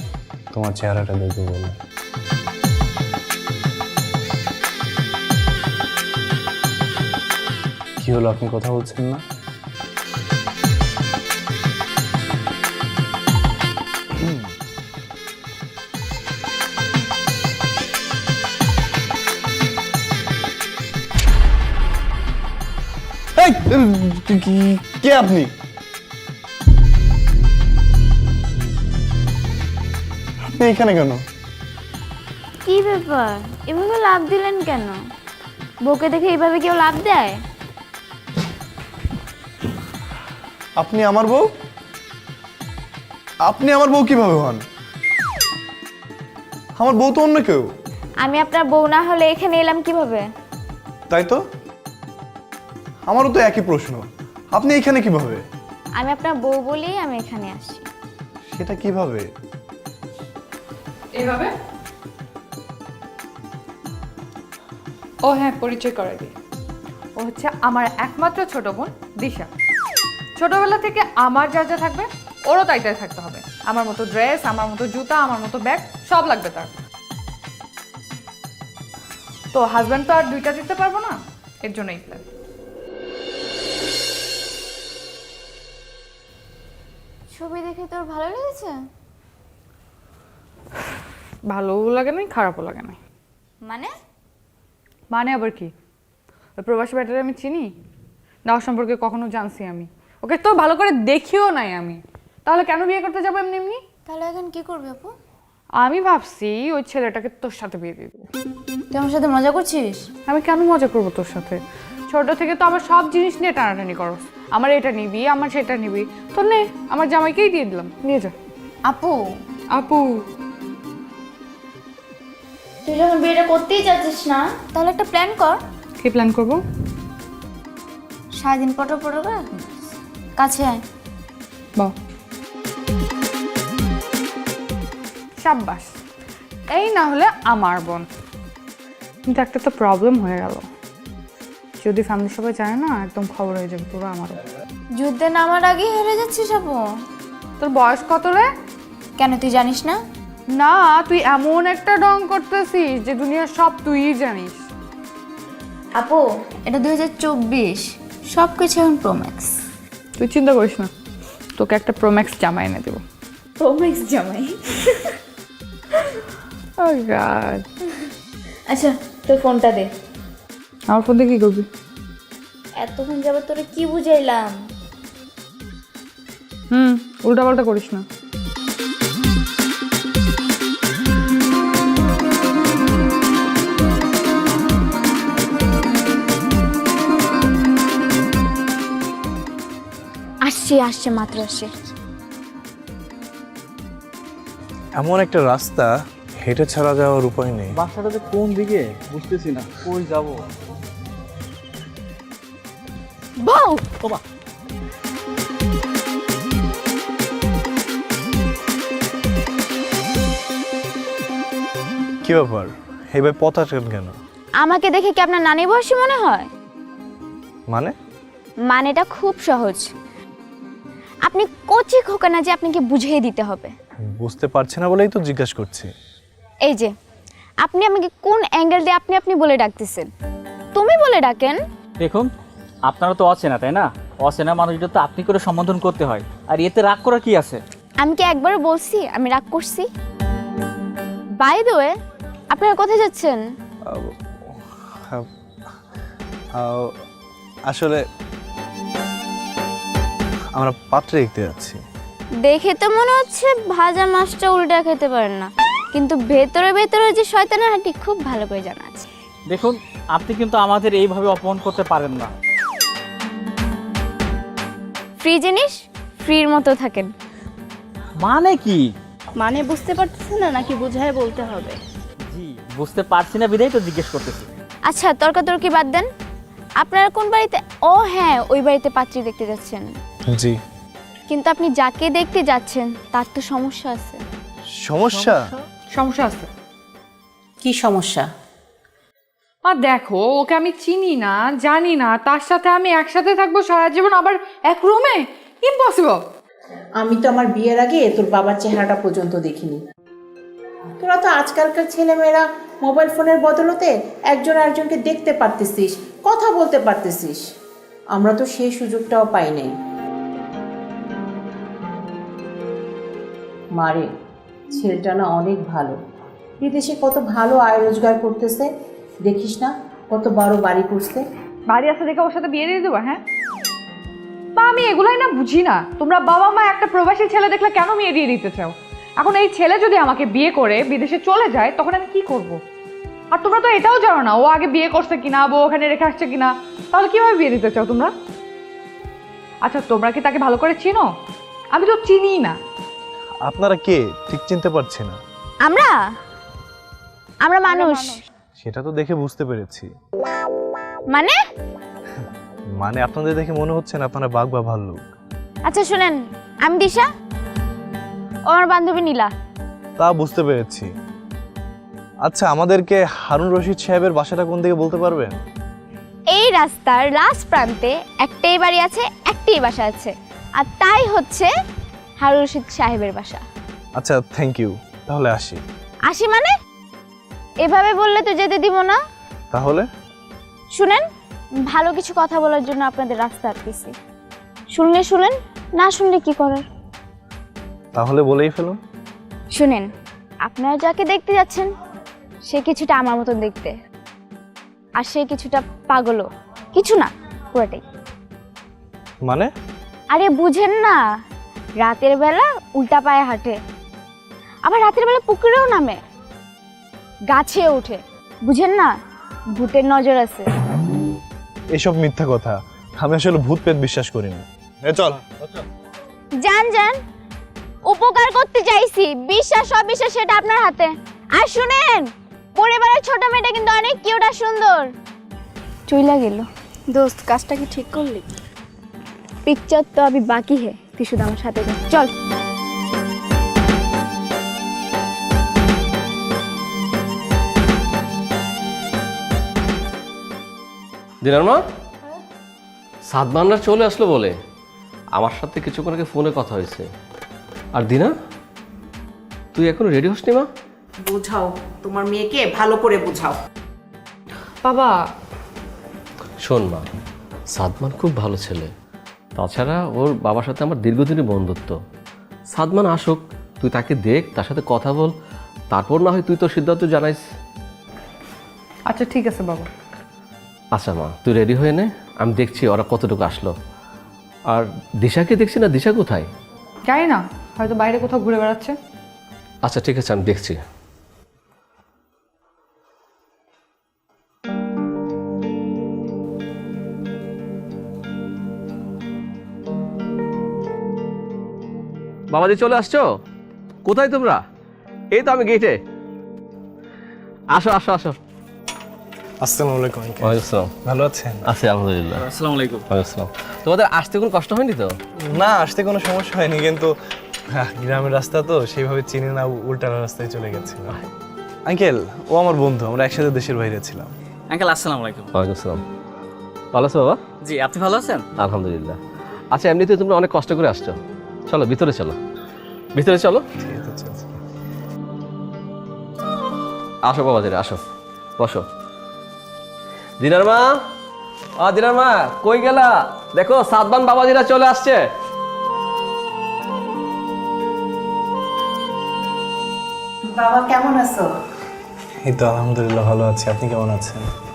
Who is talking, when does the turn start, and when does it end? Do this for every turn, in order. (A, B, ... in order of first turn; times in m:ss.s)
0:00.5-0:01.8 A
0:08.0-0:09.2 A
0:14.1-0:14.5 A
0:23.4-0:25.5 A
0:30.5-0:31.2 A
0:32.6-0:35.0 B
0:35.8-0:37.4 B
0:40.8-0:41.5 A
0:43.4-0:44.6 A
0:46.8-0:47.7 A
0:48.2-0:50.3 B
0:51.1-0:51.4 A
0:53.1-0:55.4 A
0:56.0-0:57.8 B
0:58.5-0:59.3 A
1:01.1-1:01.5 C
1:05.2-1:06.3 C
1:07.2-1:09.5 C
1:10.4-1:16.7 C
1:19.5-1:22.2 C
1:27.3-1:28.8 B
1:31.5-1:33.0 C
1:33.6-1:33.9 B
1:35.1-1:35.7 C
1:36.6-1:37.7 C
1:38.4-1:43.8 C
1:44.1-1:45.1 B
1:45.8-1:48.3 C
1:48.9-1:50.1 B
1:50.3-1:58.3 C
1:58.8-1:59.4 B
1:59.7-2:00.2 C
2:02.8-2:05.6 B
2:06.0-2:06.6 C
2:08.4-2:09.6 B
2:10.4-2:10.8 B
2:15.4-2:15.9 C
2:16.7-2:18.1 C
2:19.2-2:20.6 C
2:21.8-2:24.4 C
2:24.9-2:26.8 B
2:27.6-2:28.5 C
2:29.2-2:30.0 B
2:30.5-2:34.7 C
2:36.0-2:39.6 B
2:40.2-2:40.9 C
2:41.5-2:43.0 C
2:43.6-2:45.1 B
2:46.8-2:47.7 C
2:48.7-2:49.9 B
2:50.9-2:51.7 C
2:52.8-2:54.7 B
2:56.7-2:58.0 C
3:10.4-3:11.7 B
3:15.0-3:17.7 A
3:17.7-3:20.4 D
3:23.4-3:23.9 B
3:32.2-3:34.1 A
3:34.6-3:36.5 B
3:38.6-3:39.9 B
3:41.2-3:43.7 B
3:44.0-3:45.9 A
3:46.6-3:46.9 B
3:47.6-3:50.1 B
3:50.7-3:51.6 B
3:52.0-3:52.3 D
3:52.9-3:57.6 D
3:58.0-3:59.9 B
4:01.4-4:01.9 B
4:02.5-4:03.4 B
4:03.8-4:05.3 A
4:06.5-4:06.9 A
4:07.7-4:08.0 A
4:10.5-4:11.8 A
4:12.4-4:19.0 B
4:19.5-4:22.3 D
4:25.2-4:27.1 B
4:28.2-4:28.9 D
4:29.4-4:31.8 E
4:32.3-4:34.5 D
4:34.9-4:36.1 B
4:36.8-4:39.9 B
4:40.3-4:40.6 A
4:41.3-4:44.2 B
4:44.7-4:45.5 A
4:45.1-4:45.5 D
4:45.9-4:46.5 C
4:47.6-4:48.2 F
4:49.6-4:56.2 C
4:57.0-4:59.8 F
5:01.0-5:07.4 F
5:08.1-5:09.7 F
5:13.8-5:14.1 F
5:14.7-5:16.0 F
5:16.6-5:18.7 F
5:19.2-5:21.2 F
5:21.7-5:23.2 C
5:24.6-5:32.6 C
5:33.3-5:38.1 C
5:39.6-5:41.1 C
5:41.7-5:42.6 C
5:43.4-5:45.2 A
5:45.6-5:46.1 B
5:47.4-5:48.2 B
5:48.6-5:49.9 A
5:51.1-5:51.4 B
5:52.8-5:55.0 A
5:55.6-5:57.1 B
5:58.5-5:59.3 B
6:00.0-6:00.9 A
6:02.2-6:05.4 A
6:06.3-6:11.5 B
6:12.2-6:13.4 B
6:14.0-6:15.6 A
6:16.0-6:16.5 B
6:17.6-6:19.0 B
6:19.5-6:19.9 A
6:20.7-6:21.1 B
6:21.6-6:23.9 B
6:24.7-6:26.6 B
6:27.9-6:28.8 A
6:29.5-6:29.9 B
6:30.4-6:31.7 B
6:32.5-6:33.8 B
6:35.0-6:37.8 B
6:39.2-6:39.5 A
6:40.1-6:41.0 B
6:41.8-6:43.6 B
6:44.6-6:46.0 B
6:47.3-6:49.0 B
6:49.5-6:50.5 B
6:51.7-6:55.3 A
6:56.4-6:57.0 B
6:57.8-7:04.9 B
7:05.9-7:06.5 B
7:06.9-7:08.3 E
7:09.4-7:12.1 B
7:21.2-7:21.6 G
7:23.1-7:24.4 G
7:25.1-7:26.9 G
7:27.7-7:28.1 G
7:29.5-7:30.5 G
7:31.0-7:33.4 F
7:34.6-7:35.1 C
7:36.4-7:36.8 G
7:37.5-7:38.7 G
7:39.4-7:41.8 G
7:42.5-7:45.1 G
7:45.7-7:47.2 G
7:48.9-7:49.7 C
7:50.7-7:53.5 G
7:54.5-7:56.3 G
7:56.8-7:58.8 C
7:59.6-8:00.6 G
8:12.3-8:13.2 G
8:13.8-8:14.4 G
8:15.1-8:15.8 G
8:17.5-8:18.2 G
8:19.4-8:21.4 A
8:20.2-8:20.7 G
8:21.4-8:22.2 G
8:22.1-8:22.8 D
8:22.9-8:25.0 G
8:25.3-8:26.9 A
8:27.5-8:31.0 A
8:31.7-8:34.1 A
8:34.5-8:35.3 D
8:35.3-8:35.8 G
8:36.7-8:37.2 G
8:37.4-8:38.2 D
8:38.4-8:39.0 G
8:39.5-8:41.0 G
8:41.5-8:42.2 G
8:42.9-8:43.4 G
8:43.6-8:44.4 A
8:47.0-8:47.8 G
8:48.4-8:48.6 G
8:50.2-8:50.8 G
8:51.6-8:55.0 G
9:00.3-9:01.3 F
9:02.2-9:04.2 A